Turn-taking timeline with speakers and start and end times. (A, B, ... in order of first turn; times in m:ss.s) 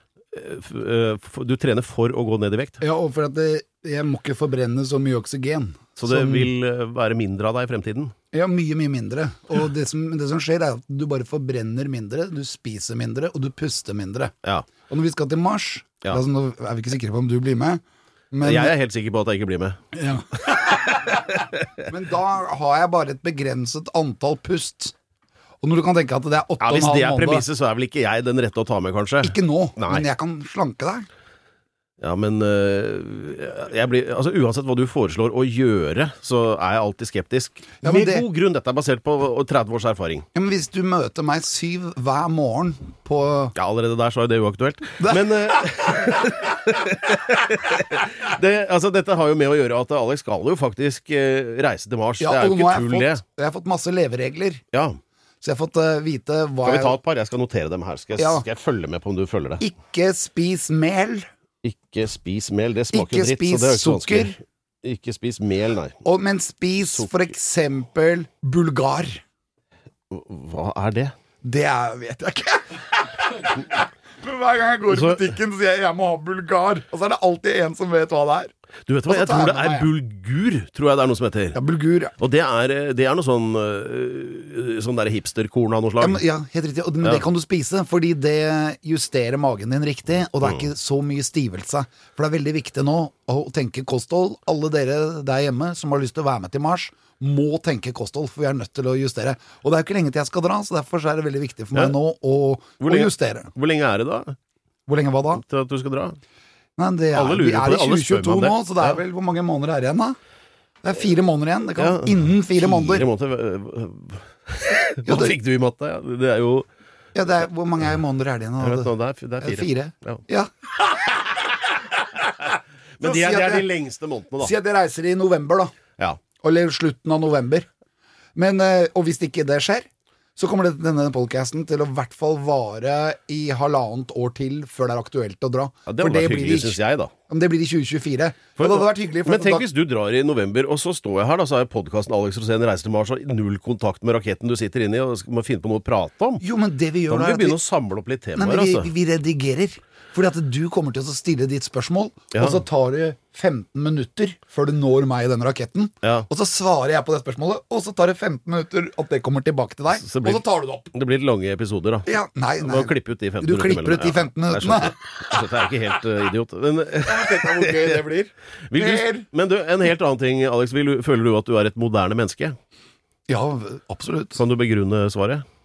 0:00.3-0:02.8 A
0:02.8-0:06.5 B
0:06.0-0:08.1 A
0:08.3-0:14.3 B
0:14.9-0:18.8 B
0:18.4-0:19.8 A
0:19.9-0:24.9 B
0:21.4-0:21.7 A
0:25.6-0:27.5 B
0:26.6-0:30.1 A
0:29.2-0:31.1 B
0:32.0-0:40.2 A
0:37.8-0:38.2 B
0:40.3-0:43.6 B
0:43.6-0:53.2 A
0:45.0-0:45.9 B
0:52.2-0:54.6 B
0:54.7-0:55.0 A
0:55.4-0:57.0 B
0:56.6-0:59.6 A
0:58.2-0:58.4 B
0:59.6-1:01.3 B
1:01.6-1:06.0 A
1:02.9-1:04.4 B
1:06.0-1:09.2 B
1:10.1-1:11.1 A
1:11.4-1:18.5 B
1:14.9-1:15.3 A
1:18.9-1:21.6 A
1:19.1-1:19.9 B
1:21.5-1:22.2 B
1:22.2-1:26.2 A
1:26.0-1:43.5 B
1:42.8-1:44.4 A
1:44.9-1:45.4 B
1:45.4-1:46.2 A
1:46.8-1:50.2 B
1:47.1-1:49.0 A
1:50.8-1:53.1 B
1:51.8-1:56.7 A
1:55.0-1:55.4 B
1:57.2-1:58.9 B
1:58.6-2:00.2 A
1:59.4-2:02.2 B
2:03.0-2:04.5 A
2:03.0-2:03.7 B
2:04.4-2:05.7 B
2:06.4-2:07.7 B
2:08.4-2:19.7 B
2:15.9-2:17.1 A
2:18.6-2:26.4 A
2:26.4-2:27.6 B
2:27.1-2:28.9 A
2:28.4-2:40.9 B
2:32.4-2:32.6 A
2:40.0-2:42.1 A
2:42.1-2:45.4 B
2:42.6-2:48.1 A
2:47.0-2:49.3 B
2:48.7-2:52.6 A
2:53.3-2:54.4 B
2:54.4-2:55.4 A